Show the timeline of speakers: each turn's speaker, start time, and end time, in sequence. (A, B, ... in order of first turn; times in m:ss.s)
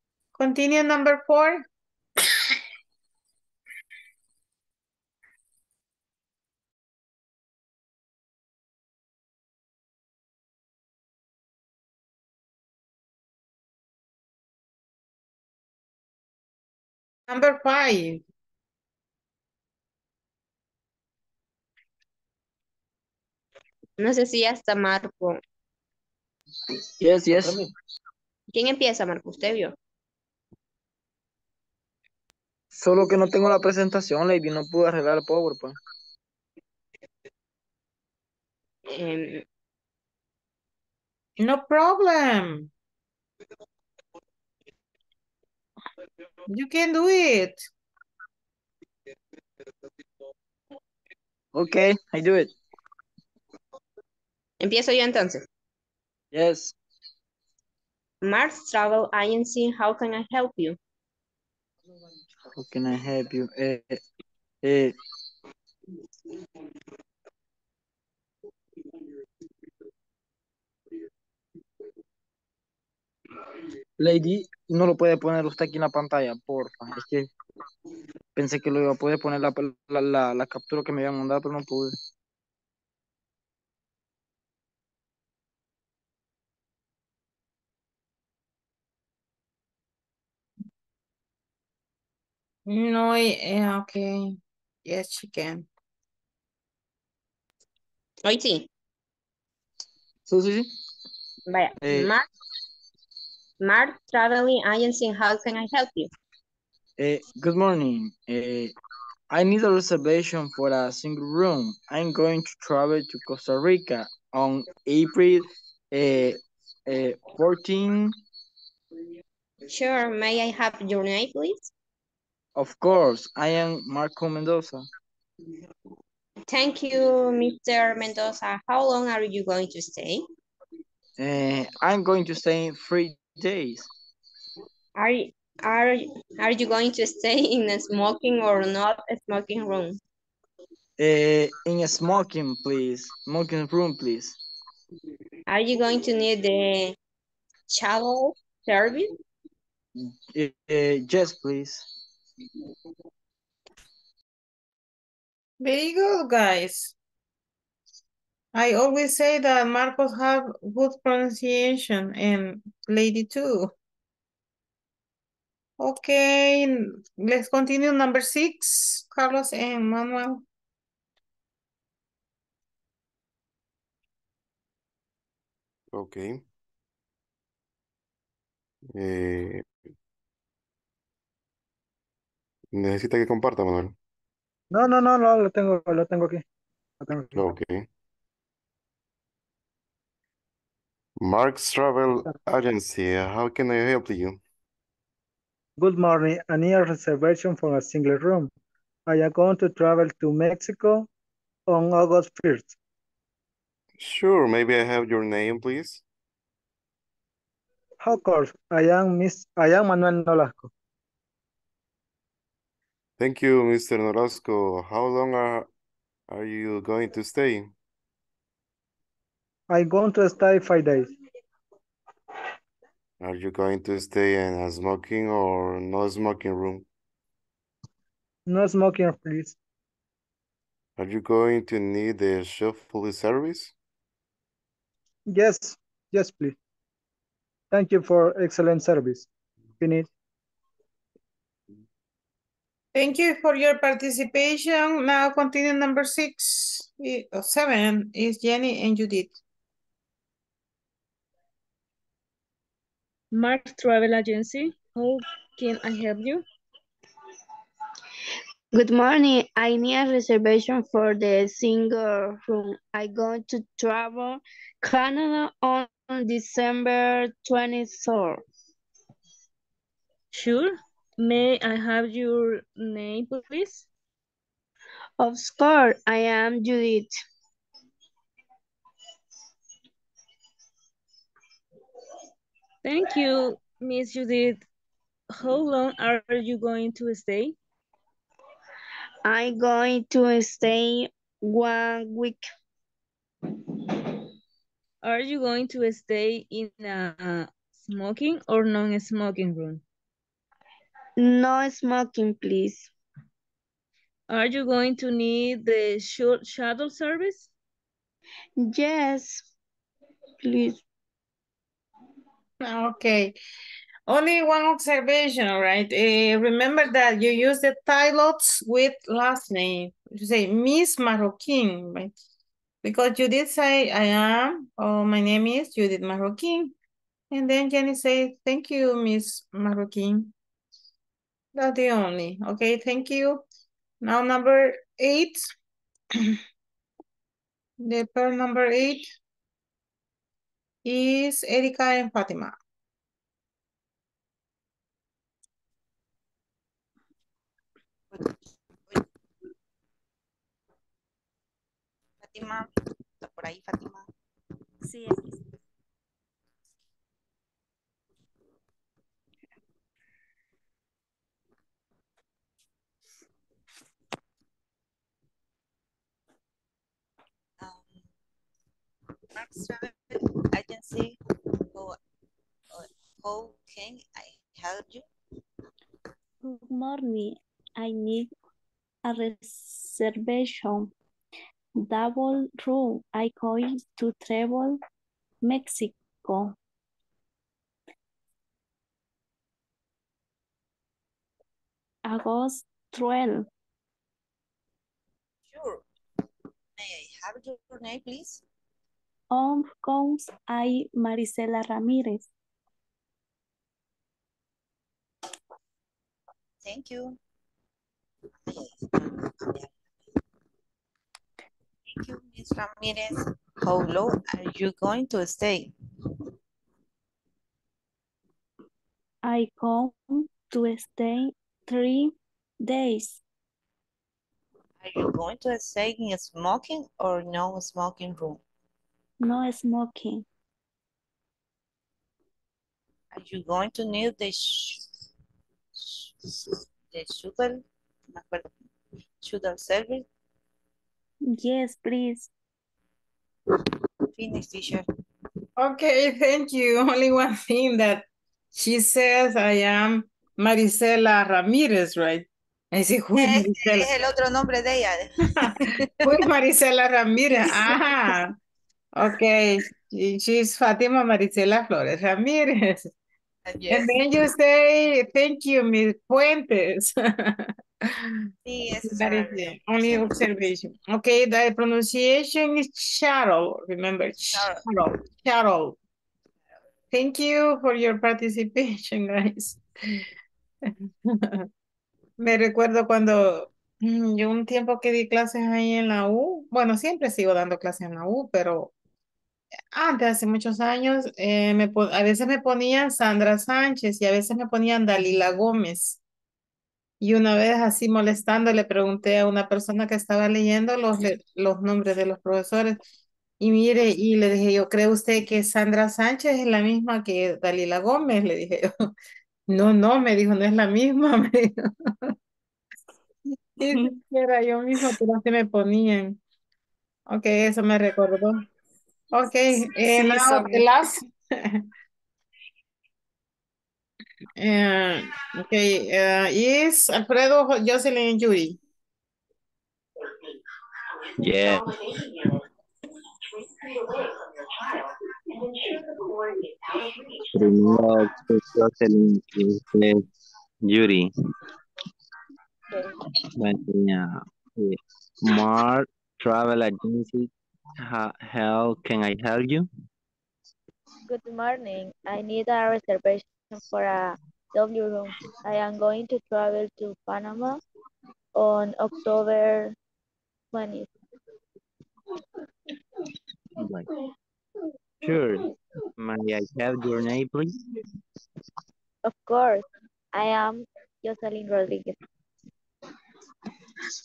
0:00.4-0:01.6 A
0:17.3-0:18.2 A
0:24.0-0:25.4 B
0:27.0-0:27.6 C
0:28.5-0:29.7 B
0:32.7-0:35.8 C
0:38.9-0:39.4 B
0:41.4-0:42.7 A
0:46.5-0:47.7 A
0:51.5-0:52.5 C
0:54.6-0:55.4 B
0:56.3-0:56.8 C
0:58.2-1:00.8 B
1:02.6-1:04.0 C
1:04.6-1:05.0 C
1:14.0-1:17.3 C
1:18.4-1:22.0 C
1:32.7-1:35.7 A
1:38.2-1:38.6 B
1:40.3-1:40.7 C
1:41.5-1:42.3 B
1:41.8-1:42.1 C
1:43.6-1:46.1 B
1:47.0-1:48.8 C
1:49.3-1:58.2 C
1:59.7-2:01.7 B
2:02.6-2:04.9 C
2:06.5-2:10.2 B
2:11.2-2:13.9 C
2:15.0-2:20.0 B
2:21.0-2:24.4 C
2:25.5-2:27.0 B
2:27.7-2:29.1 B
2:30.0-2:31.9 C
2:35.6-2:36.9 A
2:38.5-2:43.7 A
2:45.8-2:50.4 A
2:55.9-2:56.4 D
2:59.0-2:59.7 D
3:02.7-3:04.0 D
3:04.7-3:06.4 E
3:07.0-3:07.5 E
3:07.4-3:07.9 D
3:11.2-3:14.4 D
3:15.8-3:18.5 E
3:19.1-3:21.1 E
3:21.7-3:22.8 E
3:24.0-3:26.0 D
3:28.0-3:30.7 E
3:33.2-3:35.7 D
3:36.3-3:37.7 D
3:39.7-3:41.1 E
3:43.2-3:46.9 D
3:48.5-3:49.6 E
3:51.0-3:53.7 D
3:55.3-3:56.6 E
3:57.7-4:00.1 E
4:02.9-4:09.4 A
4:13.3-4:16.4 F
4:18.7-4:28.4 G
4:30.3-4:33.9 F
4:35.2-4:37.2 G
4:42.8-4:44.6 F
4:45.3-4:47.6 F
4:49.2-4:52.5 G
4:55.0-4:59.8 F
5:01.2-5:02.9 G
5:04.3-5:07.5 F
5:08.6-5:09.5 G
5:10.4-5:10.8 G
5:12.6-5:13.4 A
5:14.1-5:22.1 A
5:22.8-5:26.7 A
5:27.3-5:30.3 A
5:31.6-5:33.4 A
5:34.0-5:35.5 A
5:37.8-5:39.1 A
5:40.8-5:42.5 A
5:52.2-5:52.7 H
5:53.2-5:54.1 H
6:07.6-6:08.1 H
6:09.4-6:11.2 H
6:11.7-6:12.0 H
6:12.7-6:15.1 H
6:16.4-6:18.3 I
6:19.0-6:20.9 I
6:21.8-6:24.8 I
6:25.4-6:26.6 I
6:32.0-6:33.5 I
6:35.5-6:35.9 H
6:36.8-6:38.4 H
6:39.3-6:42.3 I
6:46.6-6:47.2 H
6:48.4-6:49.8 H
6:51.9-6:55.7 H
6:59.2-7:03.2 I
7:04.8-7:08.4 H
7:09.2-7:10.2 I
7:13.1-7:14.9 H
7:15.8-7:18.5 H
7:19.2-7:20.1 H
7:21.3-7:22.3 I
7:24.1-7:24.8 H
7:25.6-7:33.9 A
7:33.2-7:35.9 H
7:35.4-7:38.3 A
7:37.5-7:38.1 H
7:39.0-7:42.9 A
7:43.5-7:44.0 H
7:43.7-7:48.2 A
7:48.4-7:50.3 H
7:48.8-7:55.8 A
7:54.3-7:54.6 H
7:56.9-8:00.0 A
8:00.7-8:01.5 A
8:02.2-8:08.7 A
8:09.7-8:16.0 A
8:17.0-8:22.8 A
8:23.4-8:28.9 A
8:29.5-8:31.7 A
8:33.6-8:36.2 A
8:37.1-8:38.4 A
8:39.1-8:41.6 A
8:39.9-8:40.7 I
8:44.4-8:48.6 A
8:51.2-8:51.7 J
8:57.3-9:00.0 J
9:00.6-9:01.1 J
9:03.3-9:09.7 J
9:11.0-9:17.6 K
9:18.4-9:19.8 K
9:20.5-9:20.9 K
9:23.6-9:23.9 J
9:25.0-9:27.6 J
9:29.0-9:32.0 K